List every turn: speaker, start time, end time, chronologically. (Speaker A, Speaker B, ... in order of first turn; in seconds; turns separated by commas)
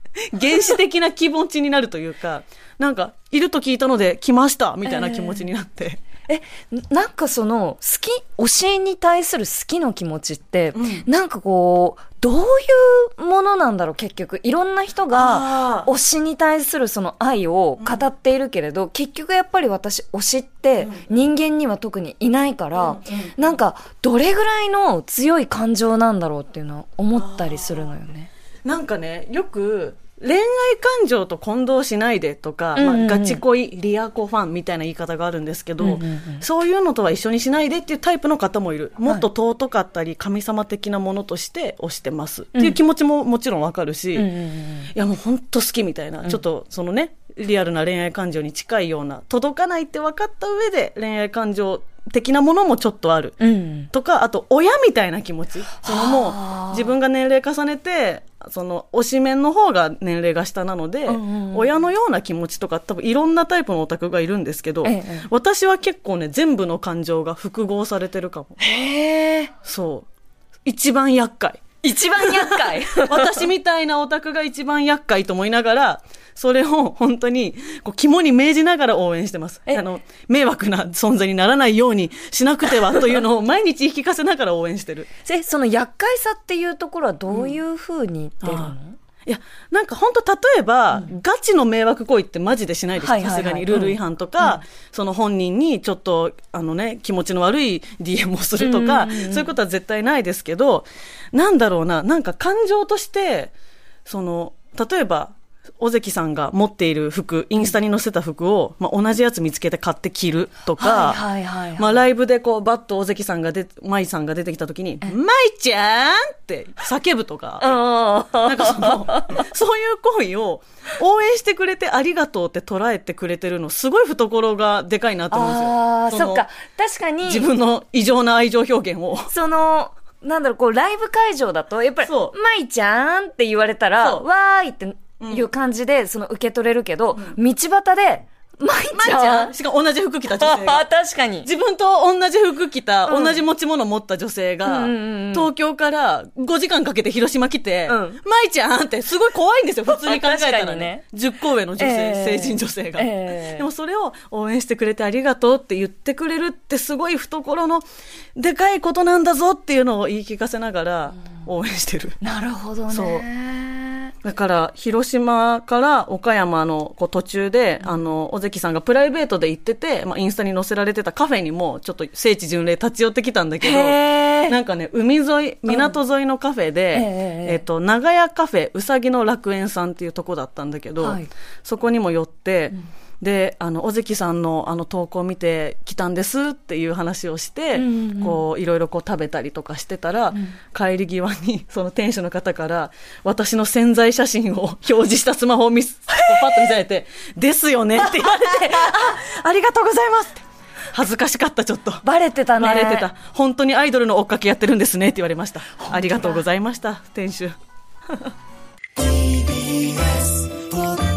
Speaker A: 0.3-6.0, Speaker B: 4.9-5.4, Speaker B: 6.3-28.3, Speaker A: 10.8-11.1, Speaker A: 15.1-15.9, Speaker A: 22.8-23.4, Speaker A: 27.1-27.9, Speaker A: 28.6-44.3, Speaker B: 32.8-33.4, Speaker B: 35.8-36.4, Speaker B: 44.2-44.9, Speaker A: 44.9-53.4, Speaker B: 53.4-53.9, Speaker A: 53.9-68.6, Speaker B: 55.8-56.9, Speaker B: 61.1-61.7, Speaker B: 64.8-65.3, Speaker B: 68.6-69.5, Speaker A: 69.6-70.1, Speaker A: 70.7-71.6, Speaker B: 71.8-73.5, Speaker A: 72.2-85.1, Speaker B: 85.2-89.0, Speaker A: 87.3-87.6, Speaker A: 88.4-88.8, Speaker A: 89.3-103.5, Speaker B: 93.0-94.6, Speaker B: 98.6-99.5, Speaker A: 104.1-111.2, Speaker B: 110.8-112.0, Speaker A: 111.8-117.8, Speaker B: 117.6-119.5, Speaker A: 118.5-126.5, Speaker B: 125.3-127.5, Speaker A: 127.2-129.3, Speaker B: 129.3-139.6, Speaker A: 132.0-132.3, Speaker A: 134.0-134.2, Speaker A: 135.2-135.5, Speaker A: 138.9-140.9, Speaker B: 140.3-141.5, Speaker A: 141.4-157.8, Speaker B: 143.1-143.4, Speaker B: 144.7-145.5, Speaker B: 147.9-148.2, Speaker B: 149.9-151.0, Speaker B: 151.8-153.7, Speaker A: 158.4-162.2, Speaker B: 162.2-164.1, Speaker A: 162.9-163.2, Speaker A: 164.2-202.1, Speaker B: 173.6-174.6, Speaker B: 175.7-176.0, Speaker B: 176.9-177.6, Speaker B: 181.0-181.3, Speaker B: 187.8-188.4, Speaker B: 198.2-198.9, Speaker B: 202.0-203.1, Speaker A: 202.6-207.6, Speaker B: 205.9-206.4